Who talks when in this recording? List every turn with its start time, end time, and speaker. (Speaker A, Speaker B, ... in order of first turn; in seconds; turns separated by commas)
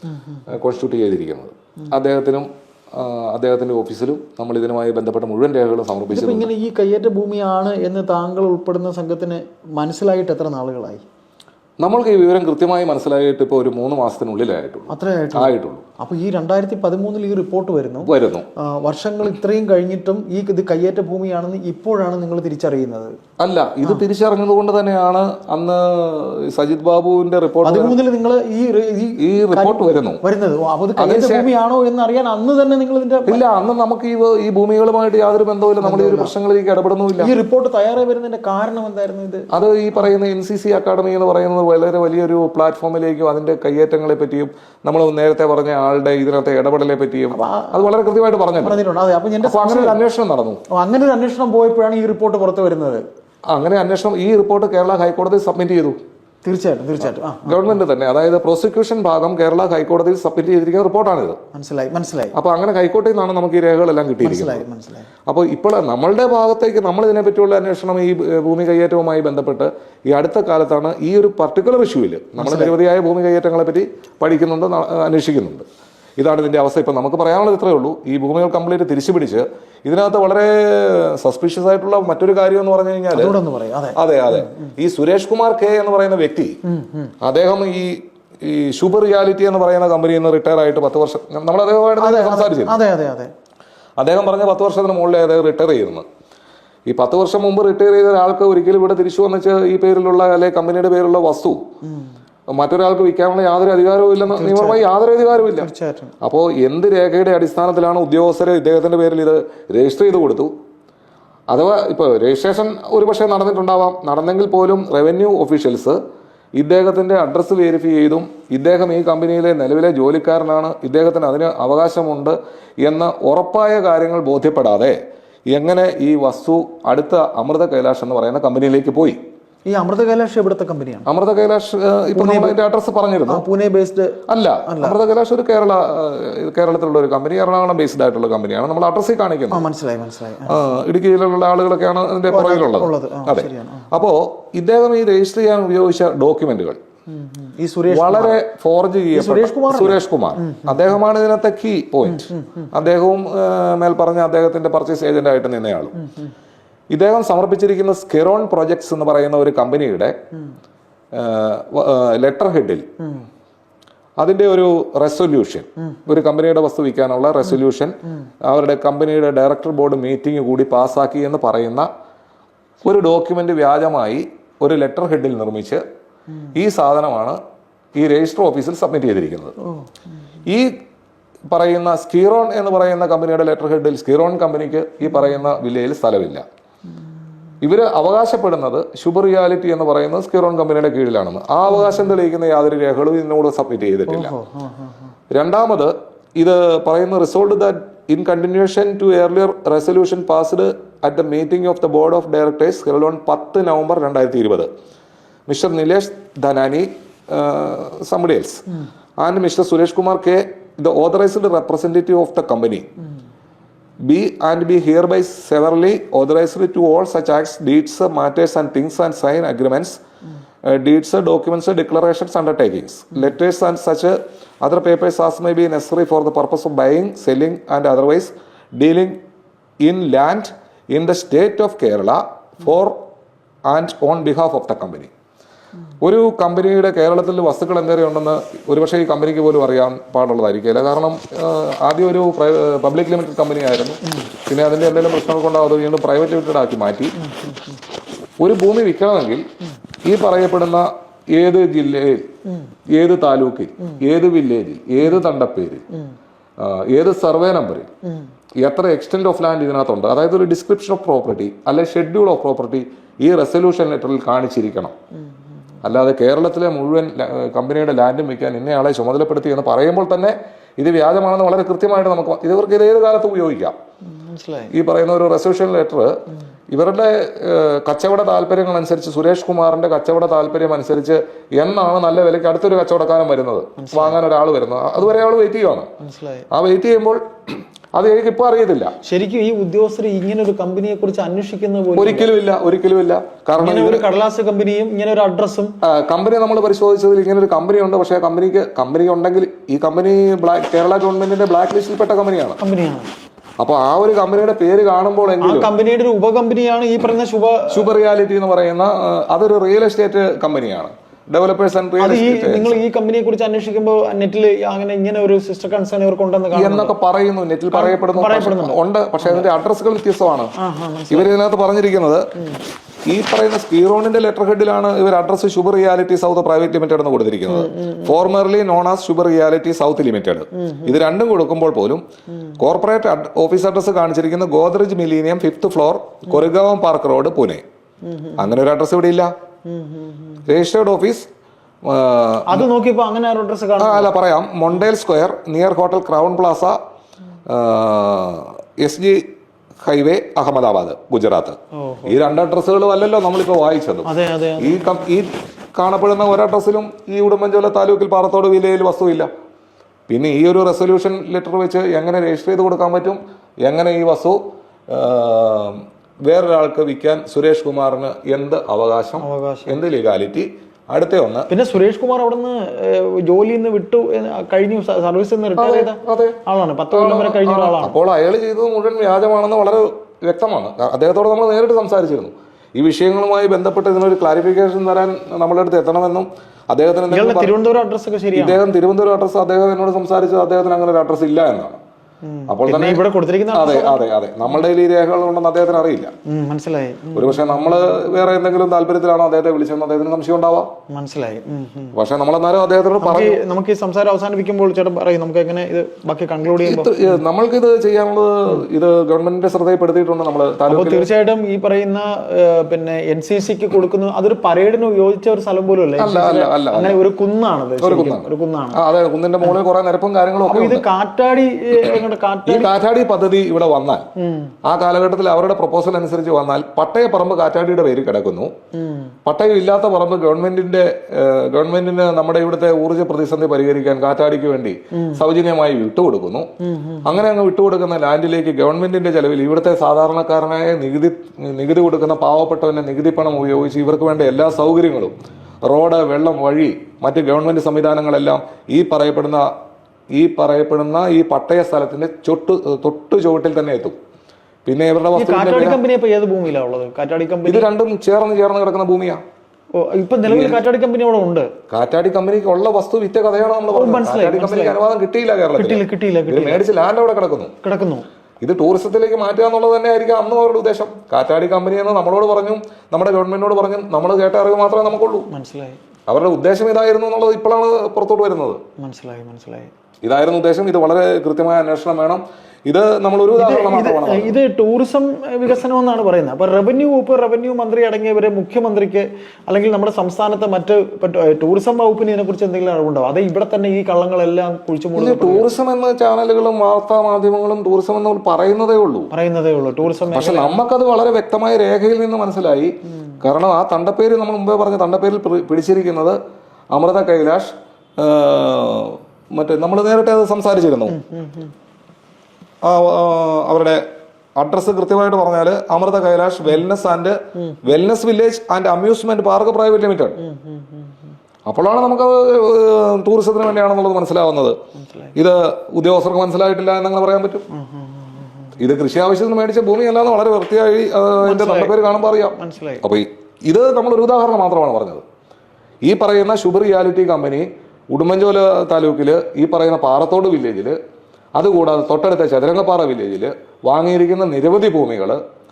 Speaker A: 0.5-6.5, Speaker B: 6.1-11.0, Speaker A: 11.8-15.8, Speaker B: 14.9-23.1, Speaker A: 18.0-18.5, Speaker A: 23.4-28.0, Speaker B: 27.6-33.4, Speaker A: 29.2-30.2, Speaker A: 31.0-31.5, Speaker A: 33.3-37.3, Speaker B: 35.8-36.3, Speaker B: 37.2-39.5, Speaker A: 39.5-48.8, Speaker B: 47.3-47.9, Speaker B: 48.6-50.0, Speaker A: 49.4-50.6, Speaker B: 50.7-53.0, Speaker A: 53.5-56.0, Speaker B: 56.4-57.7, Speaker A: 57.5-61.4, Speaker B: 61.5-62.4, Speaker A: 62.3-64.7, Speaker B: 64.2-65.1, Speaker A: 65.3-75.6, Speaker B: 72.4-72.7, Speaker A: 76.2-83.3, Speaker B: 83.1-84.7, Speaker A: 84.0-86.6, Speaker B: 86.7-87.1, Speaker A: 87.2-92.8, Speaker B: 92.0-93.3, Speaker A: 94.0-96.0, Speaker A: 96.9-101.7, Speaker B: 101.8-102.1, Speaker A: 102.5-105.7, Speaker B: 104.3-106.1, Speaker A: 106.2-110.5, Speaker A: 111.5-116.0, Speaker A: 116.6-125.0, Speaker A: 125.5-129.2, Speaker B: 129.7-131.1, Speaker A: 131.1-133.4, Speaker B: 132.1-132.6, Speaker B: 133.3-135.0, Speaker A: 134.3-139.7, Speaker B: 139.5-140.6, Speaker A: 140.5-146.8, Speaker B: 142.3-143.9, Speaker B: 147.1-148.4, Speaker A: 147.9-155.9, Speaker B: 149.1-150.8, Speaker B: 152.1-152.6, Speaker A: 156.9-160.2, Speaker A: 161.1-162.9, Speaker A: 164.2-171.9, Speaker A: 172.8-175.8, Speaker A: 176.5-177.4, Speaker A: 177.9-179.5, Speaker A: 181.5-186.4, Speaker A: 187.6-194.3, Speaker B: 194.1-195.1, Speaker A: 195.3-204.7, Speaker A: 205.5-208.7, Speaker A: 209.2-212.9, Speaker A: 214.0-220.0, Speaker A: 220.7-229.2, Speaker A: 229.8-233.0, Speaker A: 233.7-235.1, Speaker A: 236.0-247.2, Speaker B: 247.2-247.6, Speaker A: 248.4-249.4, Speaker A: 250.0-252.3, Speaker A: 252.9-255.8, Speaker A: 256.6-257.9, Speaker A: 258.6-264.9, Speaker A: 265.8-273.8, Speaker B: 274.1-274.7, Speaker A: 274.7-276.2, Speaker A: 276.7-285.9, Speaker B: 283.8-284.2, Speaker B: 286.0-286.5, Speaker A: 286.5-287.2, Speaker A: 287.9-288.9, Speaker B: 289.0-292.3, Speaker A: 292.0-294.0, Speaker B: 293.6-295.8, Speaker A: 295.8-302.6, Speaker B: 302.6-303.1, Speaker A: 303.6-305.7, Speaker B: 305.4-307.9, Speaker A: 307.7-312.8, Speaker B: 312.0-316.9, Speaker A: 316.5-320.5, Speaker B: 317.7-319.5, Speaker B: 320.6-321.3, Speaker A: 321.1-322.3, Speaker A: 323.1-332.0, Speaker B: 327.5-328.1, Speaker B: 330.5-331.0, Speaker A: 332.6-337.6, Speaker B: 338.1-338.5, Speaker A: 338.4-339.3, Speaker B: 339.7-340.4, Speaker A: 340.5-341.3, Speaker A: 341.8-342.7, Speaker B: 342.5-344.1, Speaker A: 343.8-346.8, Speaker A: 347.5-349.3, Speaker A: 349.8-359.3, Speaker B: 351.8-352.2, Speaker B: 354.1-354.9, Speaker A: 360.1-371.5, Speaker B: 369.2-369.8, Speaker B: 371.5-377.9, Speaker A: 375.6-376.4, Speaker A: 376.9-387.5, Speaker B: 387.1-388.6, Speaker A: 388.4-391.8, Speaker B: 392.2-394.0, Speaker A: 392.5-393.0, Speaker A: 393.5-396.1, Speaker B: 396.3-397.8, Speaker A: 397.1-400.7, Speaker B: 400.9-402.0, Speaker A: 401.9-403.4, Speaker B: 403.0-407.1, Speaker A: 406.6-411.1, Speaker B: 410.7-418.8, Speaker A: 416.0-417.0, Speaker A: 417.8-420.9, Speaker B: 420.5-422.7, Speaker A: 421.9-424.1, Speaker B: 424.2-424.5, Speaker A: 424.6-428.5, Speaker B: 428.8-429.1, Speaker A: 429.2-436.5, Speaker B: 434.9-435.2, Speaker B: 436.6-437.1, Speaker A: 437.0-449.5, Speaker A: 450.1-454.0, Speaker A: 454.7-455.8, Speaker B: 455.2-457.7, Speaker A: 457.5-459.2, Speaker B: 459.8-461.5, Speaker A: 460.2-460.6, Speaker A: 461.7-467.5, Speaker B: 463.7-464.8, Speaker B: 465.6-466.6, Speaker B: 467.6-468.1, Speaker A: 468.4-475.3, Speaker B: 475.3-475.8, Speaker A: 476.1-478.6, Speaker B: 478.8-479.7, Speaker A: 480.0-484.4, Speaker B: 483.3-495.5, Speaker A: 495.0-499.1, Speaker B: 499.1-500.6, Speaker A: 500.1-506.2, Speaker A: 506.7-511.0, Speaker B: 510.9-511.5, Speaker A: 512.6-513.8, Speaker A: 514.4-520.2, Speaker B: 520.2-521.1, Speaker A: 521.5-524.6, Speaker B: 524.8-525.1, Speaker A: 525.1-527.5, Speaker B: 527.5-528.6, Speaker A: 528.6-535.0, Speaker B: 531.2-532.9, Speaker A: 535.8-540.8, Speaker A: 541.4-545.2